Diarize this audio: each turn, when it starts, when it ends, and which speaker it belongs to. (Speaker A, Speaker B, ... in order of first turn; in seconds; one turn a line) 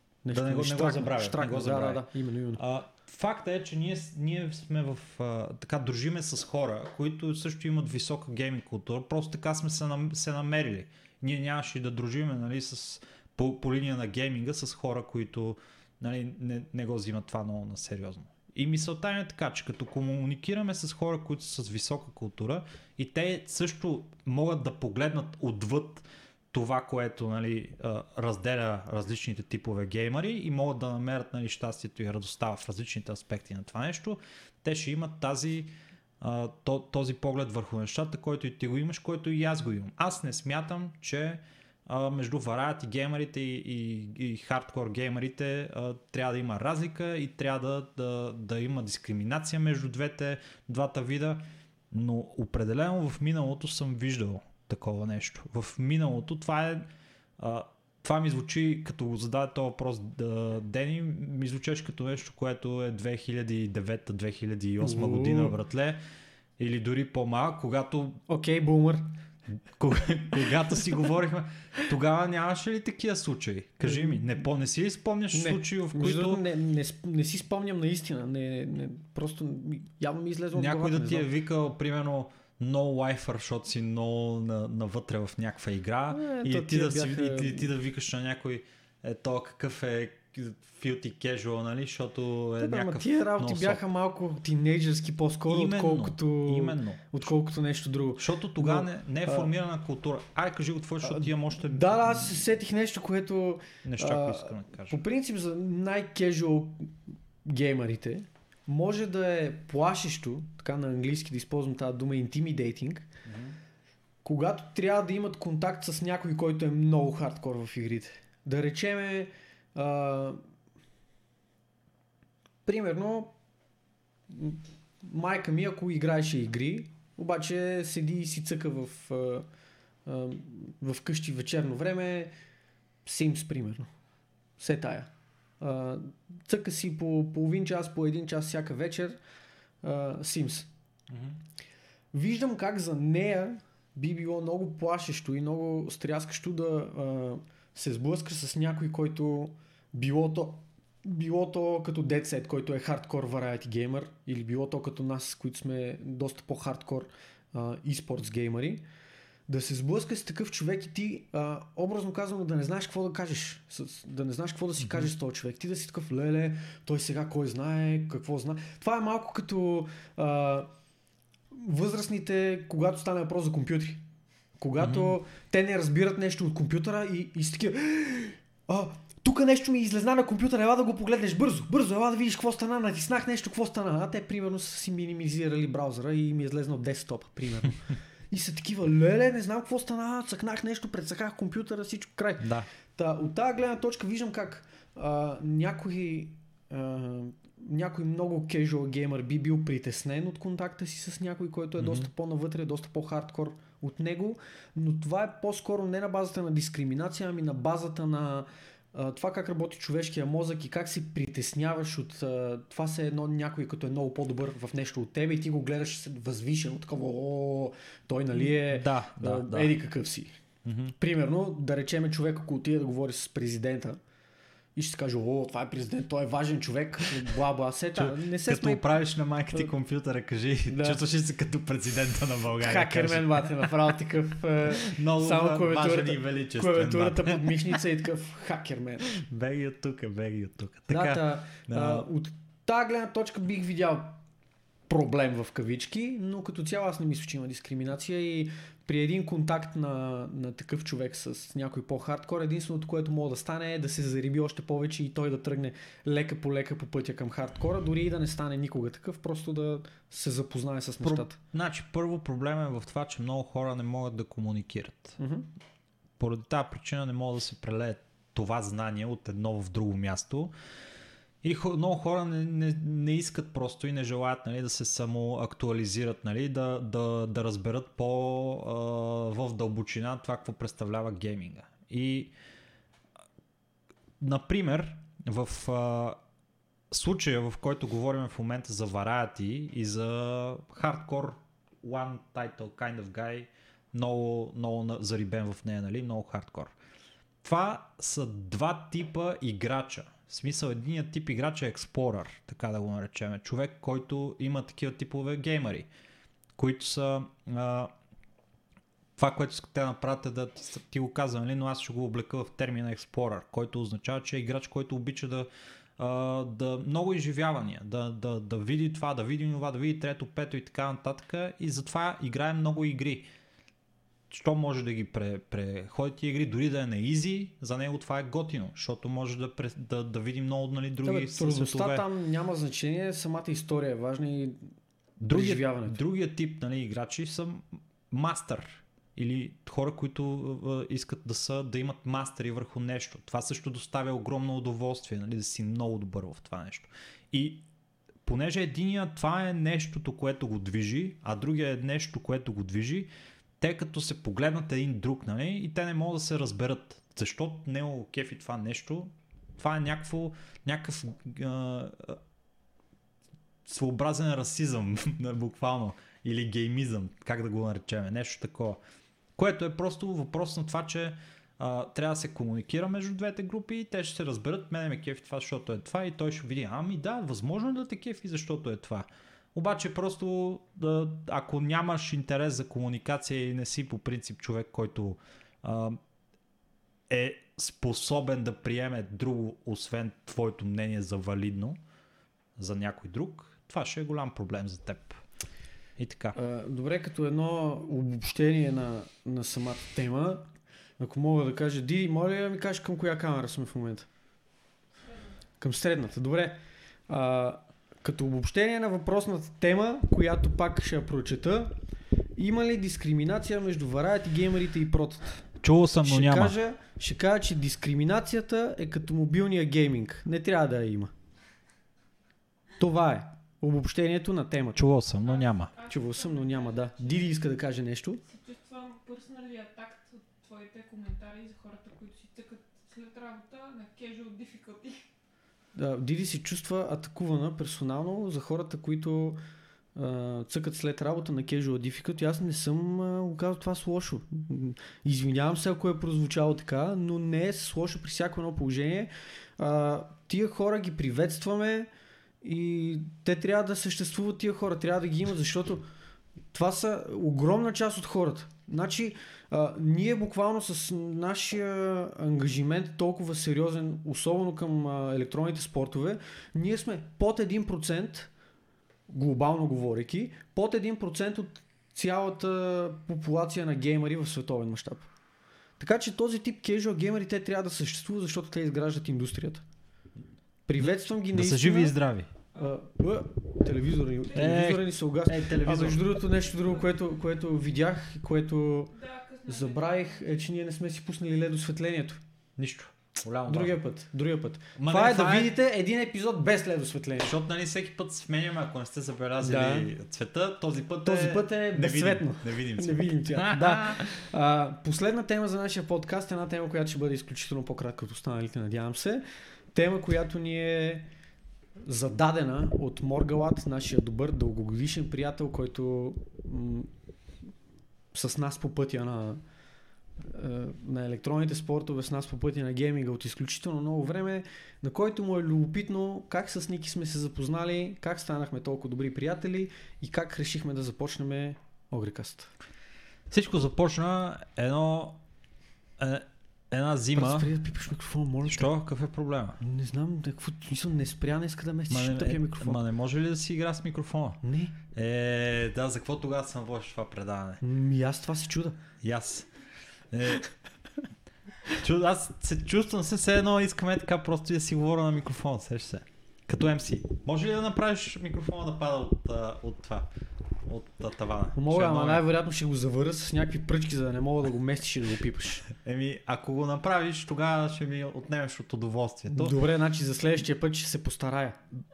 Speaker A: 0.2-2.6
Speaker B: 0.3-2.0
Speaker B: 2.6-66.0
Speaker A: 64.8-65.5
Speaker B: 66.6-68.2
Speaker A: 68.3-69.1
Speaker B: 69.7-76.4
Speaker A: 73.8-74.2
Speaker A: 75.3-81.3
Speaker B: 80.5-93.8
Speaker A: 86.1-87.7
Speaker A: 92.6-99.5
Speaker B: 95.5-97.3
Speaker B: 98.2-102.4
Speaker A: 101.0-113.0
Speaker B: 103.8-105.0
Speaker B: 113.2-113.6
Speaker A: 114.2-120.4
Speaker A: 122.7-123.3
Speaker A: 124.3-129.4
Speaker A: 130.1-132.3
Speaker A: 133.1-133.9
Speaker A: 134.6-135.1
Speaker A: 135.6-139.2
Speaker A: 139.8-140.7
Speaker B: 141.1-141.4
Speaker A: 142.1-158.8
Speaker A: 159.5-170.7
Speaker B: 164.8-165.1
Speaker A: 171.5-174.0
Speaker A: 174.6-220.3
Speaker B: 174.8-175.2
Speaker B: 192.4-192.7
Speaker B: 201.8-202.1
Speaker B: 218.3-219.7
Speaker B: 220.6-220.9
Speaker A: 221.0-224.0
Speaker A: 224.8-228.8
Speaker B: 227.9-233.9
Speaker A: 230.7-231.0
Speaker A: 232.6-239.1
Speaker B: 234.7-237.8
Speaker B: 239.1-242.1
Speaker A: 240.9-244.2
Speaker A: 244.9-261.4
Speaker B: 261.0-265.2
Speaker A: 265.2-265.5
Speaker B: 266.2-270.5
Speaker B: 271.4-282.3
Speaker B: 284.2-286.2
Speaker B: 286.9-296.7
Speaker B: 297.4-305.9
Speaker B: 306.6-307.9
Speaker B: 309.2-323.3
Speaker B: 324.3-332.1
Speaker A: 331.0-334.6
Speaker B: 335.2-347.6
Speaker A: 335.3-336.0
Speaker B: 348.2-362.2
Speaker B: 363.6-368.8
Speaker B: 369.4-386.0
Speaker B: 387.1-391.8
Speaker B: 392.6-395.2
Speaker B: 396.0-396.4
Speaker A: 396.3-400.4
Speaker A: 401.0-404.1
Speaker A: 405.6-411.7
Speaker A: 412.4-415.5
Speaker B: 415.6-416.6
Speaker A: 416.0-421.1
Speaker A: 422.8-424.9
Speaker B: 424.7-425.7
Speaker C: 425.2-427.4
Speaker A: 425.9-428.2
Speaker C: 428.3-435.0
Speaker A: 435.8-439.4
Speaker A: 439.9-451.9
Speaker A: 452.4-455.8
Speaker A: 456.5-468.3
Speaker A: 469.1-475.1
Speaker A: 475.8-479.6
Speaker A: 480.7-481.9
Speaker B: 480.8-482.3
Speaker A: 482.5-488.9
Speaker B: 484.3-486.1
Speaker C: 488.9-490.5
Speaker A: 489.5-492.2
Speaker B: 492.6-493.8
Speaker A: 493.5-497.3
Speaker B: 494.8-495.5
Speaker B: 497.2-504.1
Speaker A: 499.4-499.9
Speaker A: 501.0-511.1
Speaker A: 511.8-516.9
Speaker A: 518.1-519.4
Speaker A: 520.2-532.5
Speaker B: 533.3-535.2
Speaker B: 536.0-537.5
Speaker A: 537.1-538.7
Speaker B: 538.5-539.6
Speaker A: 539.6-542.8
Speaker B: 541.9-547.6
Speaker A: 544.4-544.8
Speaker A: 547.6-548.8
Speaker B: 549.0-549.5
Speaker B: 550.1-550.5
Speaker B: 551.7-560.1
Speaker B: 560.6-562.2
Speaker A: 561.5-565.6
Speaker B: 565.7-569.6
Speaker A: 569.3-571.6